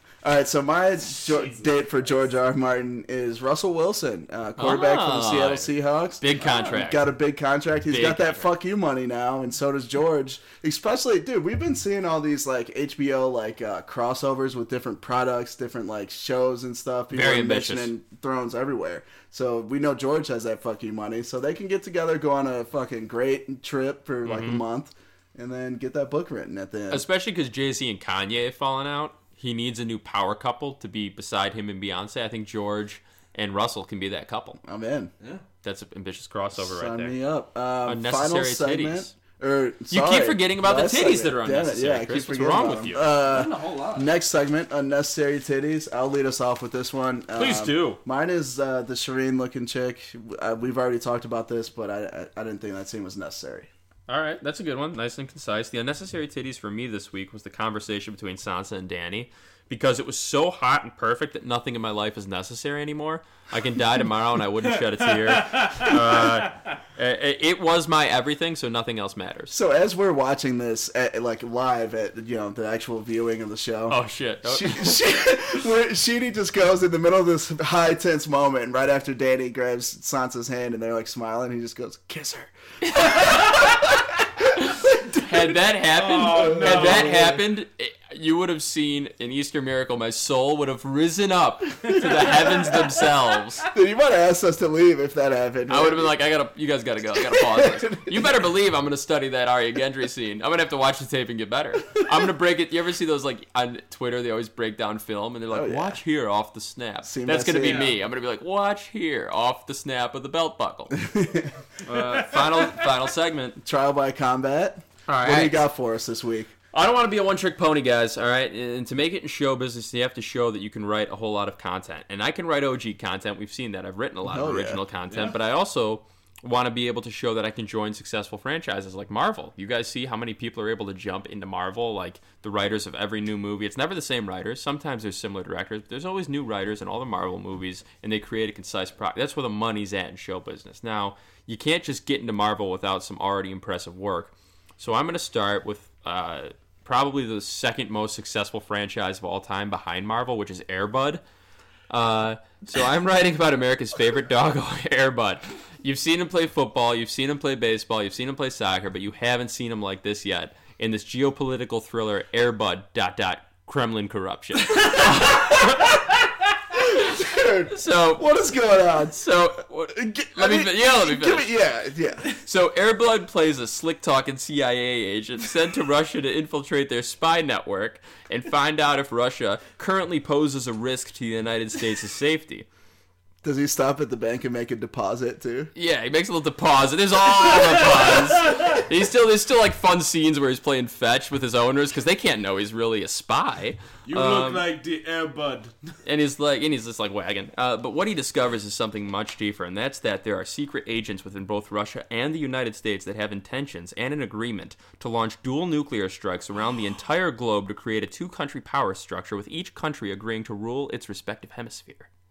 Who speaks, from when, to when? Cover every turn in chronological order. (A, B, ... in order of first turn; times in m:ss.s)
0:00.2-0:27.0 A
0:04.6-0:07.1 B
0:07.9-0:08.5 B
0:17.1-0:17.9 B
0:24.2-0:24.6 B
0:26.9-0:34.6 B
0:34.6-0:35.1 A
0:35.6-0:37.2 B
0:36.6-0:53.7 A
0:37.8-0:39.1 B
0:39.9-0:43.0 B
0:43.1-0:44.1 C
0:47.3-0:48.0 B
0:54.1-1:09.5 B
1:04.8-1:06.5 C
1:09.5-1:24.0 A
1:13.9-1:15.0 B
1:22.8-1:33.6 B
1:24.9-1:25.6 A
1:25.9-1:27.2 C
1:26.2-1:27.4 A
1:31.9-1:33.1 C
1:33.7-1:36.1 A
1:35.7-1:51.0 B
1:37.2-1:38.5 A
1:45.5-1:46.0 A
1:47.0-1:47.9 A
1:47.6-1:48.0 C
1:51.0-1:51.6 A
1:51.8-1:53.6 B
1:53.6-1:56.5 A
1:55.1-1:55.6 B
1:56.7-2:31.2 B
2:04.2-2:04.8 A
2:05.1-2:05.4 C
2:31.9-2:46.0 B
2:45.1-2:45.8 A
2:46.8-2:49.4 A
2:47.7-2:48.3 B
2:49.0-2:51.5 B
2:49.9-2:52.3 A
2:52.4-3:02.7 B
3:03.4-3:05.7 A
3:05.8-3:14.7 B
3:14.1-3:15.9 C
3:16.0-3:32.1 B